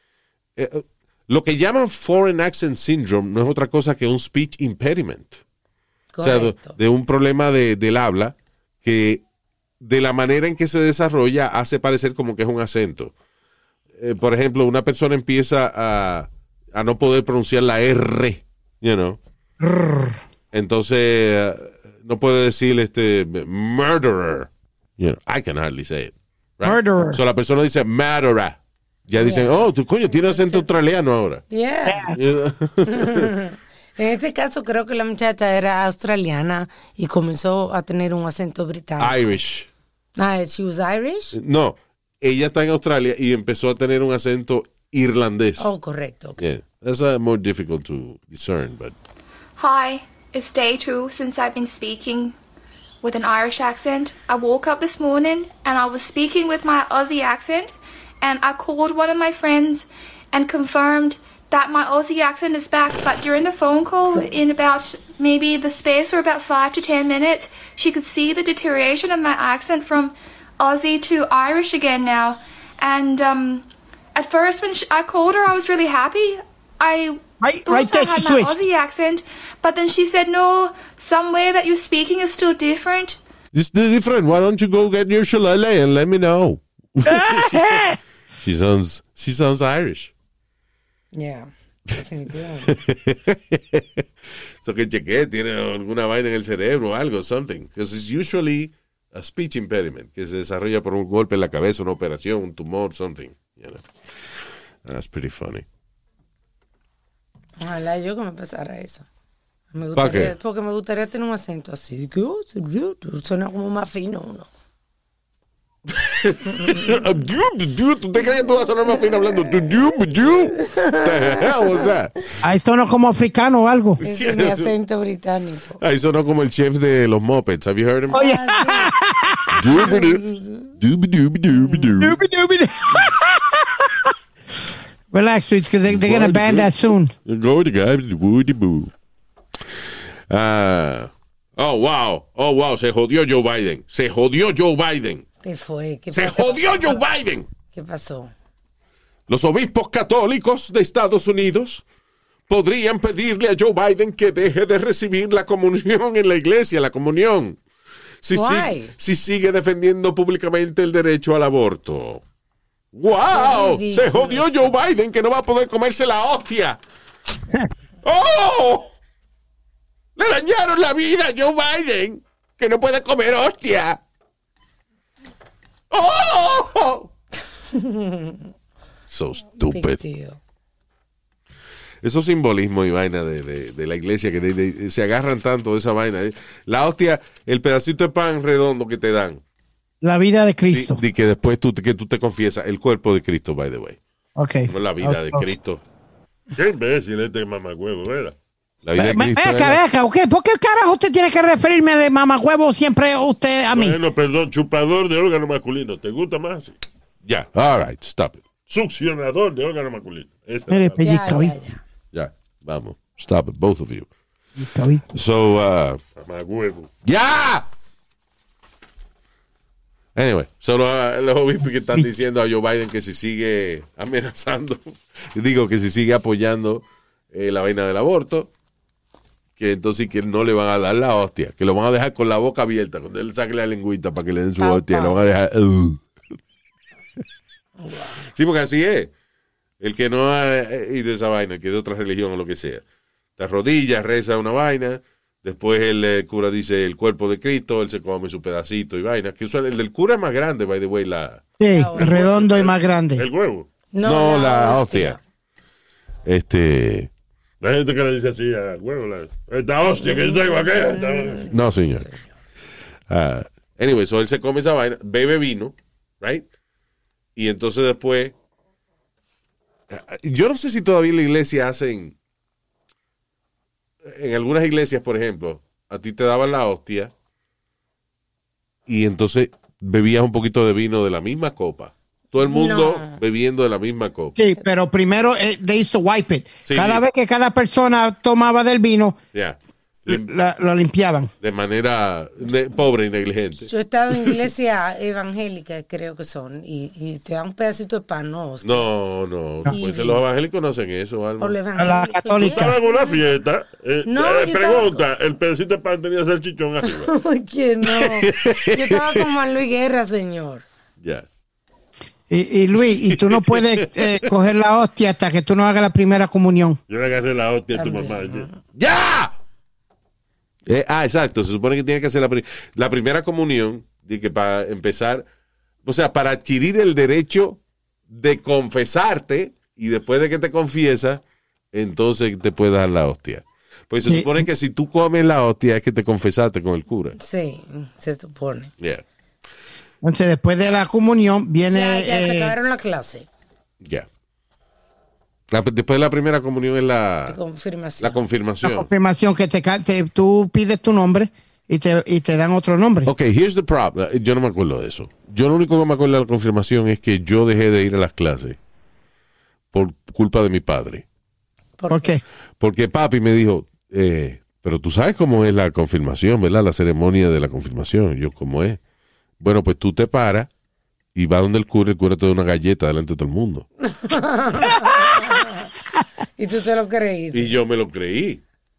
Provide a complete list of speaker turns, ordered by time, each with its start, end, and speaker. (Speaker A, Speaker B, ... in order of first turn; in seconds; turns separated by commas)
Speaker A: 0.6-5.4, Speaker B: 6.1-6.8, Speaker A: 6.2-9.2, Speaker A: 9.8-13.1, Speaker A: 14.0-19.2, Speaker C: 19.6-20.2, Speaker A: 20.5-31.4, Speaker C: 26.6-27.2, Speaker B: 29.2-30.6, Speaker B: 31.5-32.1, Speaker C: 31.9-32.2, Speaker A: 32.1-33.3, Speaker B: 33.0-39.2, Speaker A: 39.0-39.7, Speaker B: 40.2-41.4, Speaker A: 41.4-45.7, Speaker B: 45.6-46.4, Speaker A: 46.4-49.0, Speaker D: 49.6-52.4, Speaker D: 53.0-83.2, Speaker C: 77.4-78.6, Speaker A: 83.5-87.8, Speaker C: 87.1-88.0, Speaker A: 88.4-90.1, Speaker B: 91.1-92.8, Speaker A: 92.7-94.0, Speaker A: 94.6-105.7, Speaker B: 107.6-109.1, Speaker B: 109.7-114.5, Speaker A: 110.0-110.3, Speaker A: 115.9-122.1, Speaker B: 120.6-121.5, Speaker C: 122.4-124.0, Speaker A: 124.0-124.7, Speaker B: 124.0-125.8, Speaker A: 125.8-128.2, Speaker B: 128.1-128.9, Speaker C: 128.1-129.8, Speaker A: 129.5-130.2, Speaker B: 129.8-130.7, Speaker A: 130.8-132.2, Speaker C: 132.0-134.1, Speaker C: 135.1-137.1, Speaker A: 135.9-136.7, Speaker A: 137.2-138.9, Speaker A: 140.3-145.2, Speaker B: 145.4-147.0, Speaker A: 146.1-147.5, Speaker B: 147.7-148.3, Speaker A: 149.3-151.8, Speaker A: 152.5-157.6, Speaker A: 158.2-162.2, Speaker B: 158.3-158.9, Speaker A: 162.9-166.8, Speaker B: 163.3-164.7, Speaker A: 168.0-168.9, Speaker A: 170.2-174.0, Speaker A: 175.9-177.1, Speaker B: 177.7-178.4, Speaker A: 179.1-180.0, Speaker B: 179.6-180.4, Speaker A: 182.0-189.4, Speaker C: 190.0-191.0, Speaker A: 190.7-194.0, Speaker C: 194.4-195.5, Speaker A: 194.7-195.8, Speaker E: 196.6-198.3, Speaker A: 198.8-199.8, Speaker C: 199.0-204.0, Speaker E: 203.7-206.7, Speaker A: 207.2-208.4, Speaker E: 208.7-211.0, Speaker C: 210.7-211.6, Speaker B: 211.0-211.8, Speaker A: 212.1-214.1, Speaker C: 214.6-215.0, Speaker A: 215.1-216.0, Speaker E: 216.2-216.9, Speaker A: 217.1-217.7, Speaker A: 220.2-228.5, Speaker A: 229.6-236.1, Speaker B: 234.6-235.2, Speaker B: 237.8-238.3, Speaker A: 238.3-239.1, Speaker A: 239.8-242.8, Speaker A: 243.4-251.4, Speaker C: 251.6-253.3, Speaker B: 251.7-252.3, Speaker E: 252.0-253.7, Speaker B: 253.9-255.2, Speaker A: 254.0-255.2, Speaker A: 256.3-257.1, Speaker E: 257.6-261.5, Speaker B: 260.0-262.3, Speaker A: 261.5-262.1, Speaker A: 263.1-266.5, Speaker A: 267.4-268.4, Speaker A: 269.9-272.2, Speaker A: 274.1-277.1, Speaker A: 278.9-284.4, Speaker B: 282.4-283.2, Speaker C: 284.4-289.2, Speaker A: 286.6-287.0, Speaker A: 289.3-290.3, Speaker C: 290.1-291.3, Speaker A: 291.4-293.7, Speaker B: 293.7-298.9, Speaker A: 298.6-301.6, Speaker B: 299.7-300.2, Speaker B: 301.4-303.2, Speaker C: 301.8-302.8, Speaker E: 302.6-307.1, Speaker B: 304.1-305.0, Speaker B: 306.9-310.6, Speaker A: 307.9-309.3, Speaker C: 312.3-316.8, Speaker A: 313.1-314.2, Speaker E: 316.9-318.5, Speaker B: 317.7-318.6, Speaker A: 318.8-319.3, Speaker A: 320.7-325.2, Speaker A: 325.9-327.6, Speaker A: 328.1-331.2, Speaker A: 331.7-337.2, Speaker C: 334.1-334.5, Speaker B: 337.2-338.7, Speaker C: 340.0-342.6, Speaker B: 341.7-343.3, Speaker A: 343.8-344.1, Speaker A: 345.5-347.4, Speaker B: 347.3-348.2, Speaker A: 348.0-348.9, Speaker C: 348.6-353.1, Speaker A: 353.1-358.6, Speaker A: 359.7-361.1, Speaker B: 361.8-362.2, Speaker C: 361.9-362.2, Speaker A: 362.6-368.8, Speaker A: 369.4-370.5, Speaker A: 371.1-373.7, Speaker B: 373.9-375.6, Speaker B: 376.4-377.6, Speaker A: 377.3-378.4